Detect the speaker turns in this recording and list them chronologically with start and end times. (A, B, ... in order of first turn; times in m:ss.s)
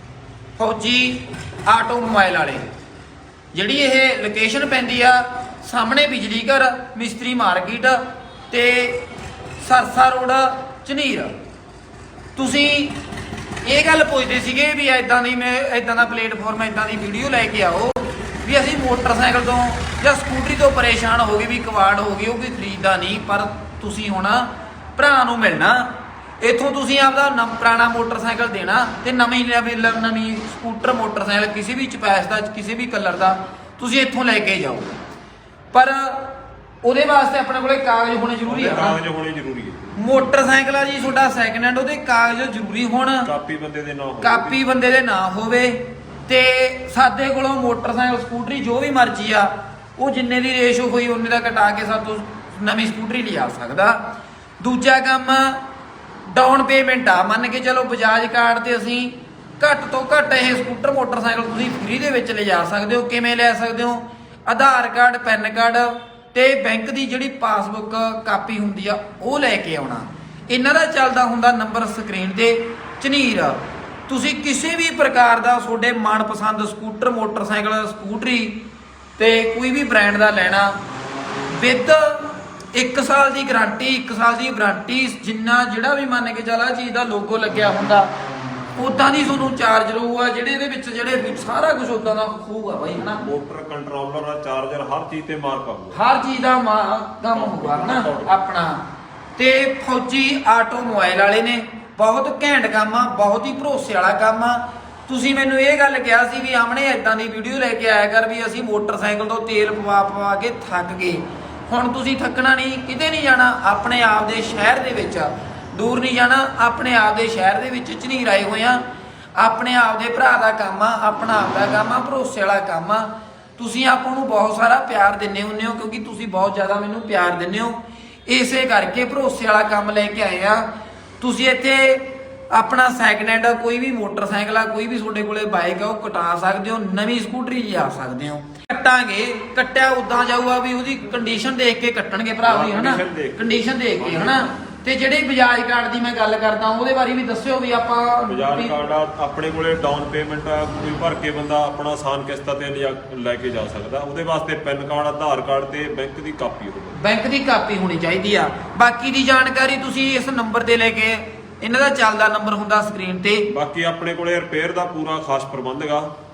0:00.6-0:02.7 A
0:03.5-0:08.0 A
0:08.5-0:09.0 A
0:09.6-0:11.3 A
0:12.4-0:13.0 A
0:13.6-0:25.9 A
0:26.4-0:35.0 A
0:35.7-0:39.0 A
0:38.4-0:40.0 B
0:40.0-0:43.3 A
0:43.2-0:44.5 B
0:44.2-0:54.0 A
0:54.6-0:55.6 A
0:56.3-1:18.6 A
1:19.2-1:20.7 A
1:21.5-1:28.1 A
1:28.8-1:33.2 A
1:33.0-1:36.0 B
1:35.9-1:38.8 A
1:37.3-1:38.3 B
1:39.4-1:58.8 A
1:59.4-2:10.6 A
2:11.2-2:28.7 A
2:22.4-2:23.4 B
2:24.0-2:24.5 B
2:28.3-2:37.0 B
2:37.0-2:43.5 A
2:43.5-2:46.1 B